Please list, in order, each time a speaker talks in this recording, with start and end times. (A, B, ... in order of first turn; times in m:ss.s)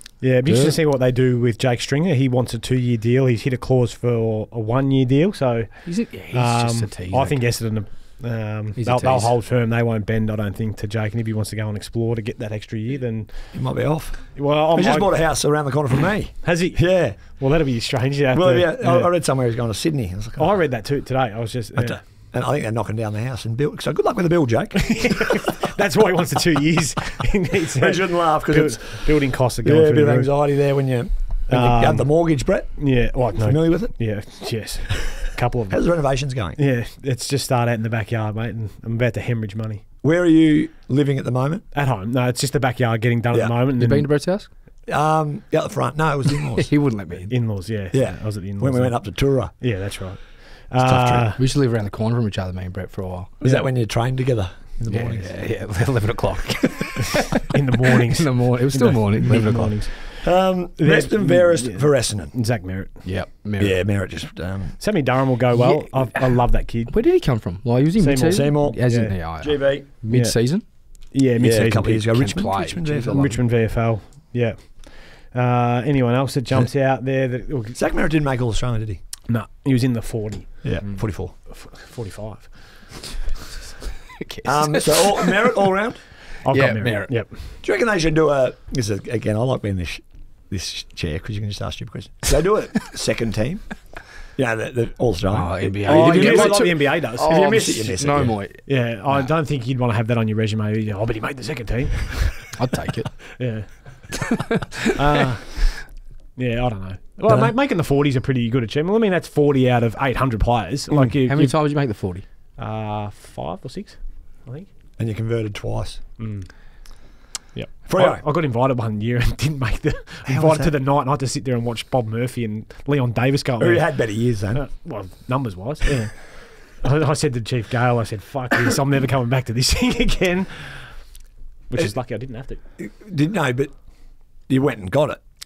0:00.2-0:13.7 A
0:00.4-0:00.8 B
0:05.8-0:07.5 B
0:08.8-0:09.4 B
0:13.5-0:17.4 C
0:14.3-0:15.7 A
0:16.4-0:19.2 A
0:18.3-0:20.7 C
0:20.4-0:22.0 A
0:21.7-0:25.4 C
0:24.8-0:30.7 A
0:27.8-0:34.4 C
0:31.5-0:39.8 A
0:35.7-0:36.6 C
0:40.0-0:41.6 C
0:41.7-0:44.1 A
0:43.7-0:44.5 B
0:44.9-0:46.7 C
0:46.6-0:47.4 B
0:47.3-0:51.4 A
0:47.9-0:49.5 C
0:50.8-0:51.3 C
0:51.4-0:53.4 B
0:53.4-0:55.4 C
0:53.4-0:53.7 A
0:54.9-0:59.9 B
0:57.4-1:03.0 A
1:00.2-1:02.3 C
1:03.0-1:03.8 B
1:03.6-1:04.8 C
1:04.8-1:06.9 A
1:05.6-1:10.6 B
1:08.0-1:09.1 A
1:08.3-1:09.9 C
1:10.1-1:12.1 A
1:11.4-1:13.3 C
1:12.0-1:13.4 B
1:13.0-1:17.8 A
1:17.7-1:19.0 C
1:19.3-1:23.0 A
1:20.6-1:21.3 C
1:24.2-1:25.3 B
1:24.4-1:26.0 C
1:26.4-1:27.5 A
1:26.5-1:27.2 B
1:27.6-1:33.7 C
1:34.3-1:38.3 C
1:35.3-1:39.3 B
1:35.8-1:37.6 A
1:38.7-1:42.5 A
1:42.5-1:43.4 B
1:43.4-1:44.2 A
1:44.9-1:45.8 A
1:46.4-1:51.6 A
1:50.9-1:52.2 B
1:52.6-1:54.7 A
1:55.0-1:56.0 C
1:56.2-2:11.1 A
1:57.8-1:58.2 C
2:00.3-2:00.7 C
2:03.6-2:04.6 C
2:11.7-2:12.6 A
2:12.8-2:13.8 C
2:14.5-2:15.2 C